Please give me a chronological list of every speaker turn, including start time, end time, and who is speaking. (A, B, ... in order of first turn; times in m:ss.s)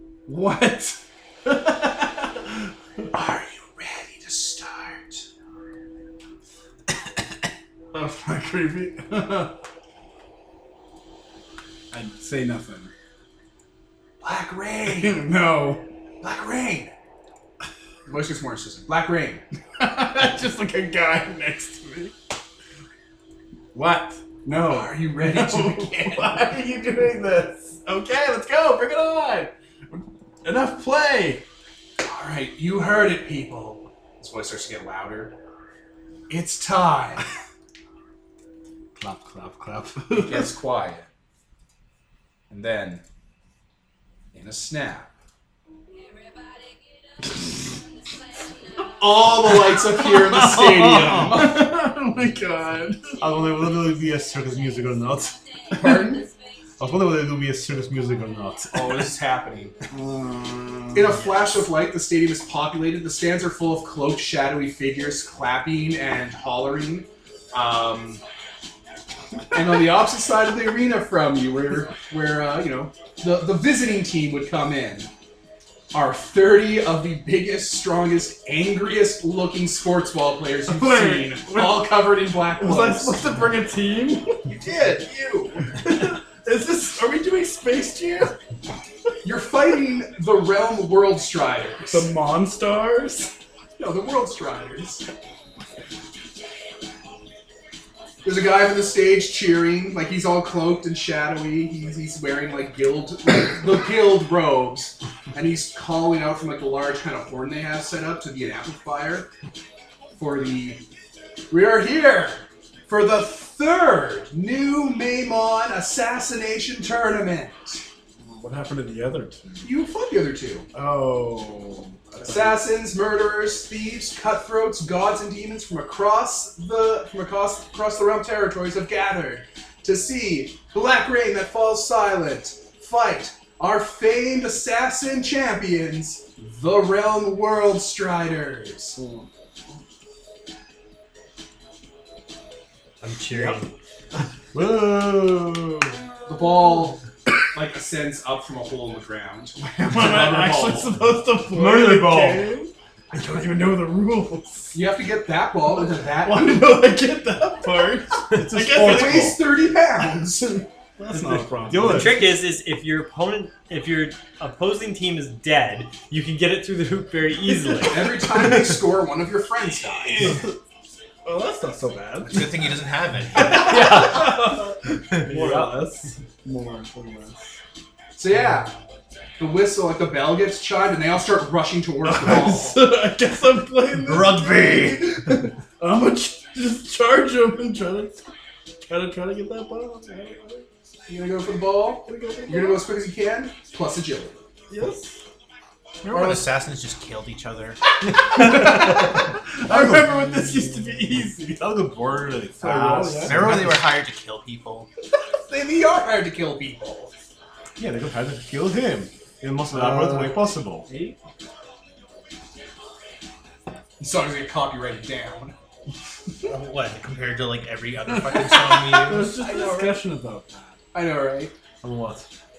0:00.3-0:02.6 A
0:03.1-0:05.2 B
0:07.9-0:09.6 A
0:11.9-0:12.9 A
0:14.2-0:15.2 B
0:14.9-0:15.8 A
0:16.2-0:16.9 B
0:18.1-0:19.4 B
0:19.8-0:22.1 A
0:23.7-0:31.4 A
0:24.5-0:26.4 B
0:32.0-0:35.4 B
0:36.3-0:37.2 B
0:39.0-0:40.3 C
0:40.1-0:41.1 B
0:42.5-0:43.0 B
0:44.3-0:45.1 B
0:49.0-0:51.6 B
0:50.0-0:53.1 A
0:53.2-0:55.4 C
0:55.7-0:56.3 B
0:56.8-0:59.1 C
0:58.7-0:59.8 B
0:59.9-1:01.2 A
1:00.9-1:08.2 B
1:09.5-1:15.1 B
1:15.9-1:23.5 B
1:20.7-1:22.0 A
1:22.5-1:24.6 A
1:24.5-1:25.6 B
1:25.5-1:28.4 A
1:29.2-1:32.1 B
1:31.9-1:33.3 A
1:33.8-1:35.0 B
1:38.2-1:49.3 B
1:50.2-1:50.8 B
1:51.5-1:57.8 B
1:58.2-1:59.7 A
1:59.6-2:00.7 B
2:00.7-2:02.6 A
2:02.1-2:19.0 B
2:19.0-2:19.3 A
2:23.0-2:23.7 D
2:23.3-2:23.6 B
2:24.5-2:26.0 C
2:26.3-2:31.0 B
2:29.6-2:34.8 A
2:31.5-2:32.5 C
2:34.7-2:36.8 B
2:36.0-2:39.4 A
2:38.3-2:39.4 C
2:38.7-2:40.6 B
2:40.5-2:42.2 A
2:41.2-2:42.3 C
2:41.7-2:48.4 D
2:47.8-2:50.4 B
2:50.2-2:50.5 A
2:51.3-2:52.7 A
2:52.2-2:53.9 E
2:53.4-2:57.6 A
2:53.5-2:55.7 D
2:58.2-2:58.7 B
2:59.4-3:02.8 B
3:02.1-3:08.3 A
3:04.0-3:05.2 E
3:08.9-3:10.7 A
3:11.1-3:14.4 B
3:12.1-3:12.8 A
3:14.7-3:15.2 A
3:16.0-3:17.8 E
3:16.1-3:16.4 B
3:18.1-3:21.7 A
3:18.4-3:20.7 C
3:21.5-3:23.8 C
3:22.6-3:23.6 A
3:23.2-3:24.9 E
3:25.5-3:27.1 B
3:27.8-3:30.9 C
3:29.7-3:31.2 A
3:34.0-3:35.6 B
3:36.4-3:39.4 E
3:38.5-3:40.8 A
3:39.4-3:40.0 B
3:40.9-3:41.5 B
3:41.8-3:42.3 C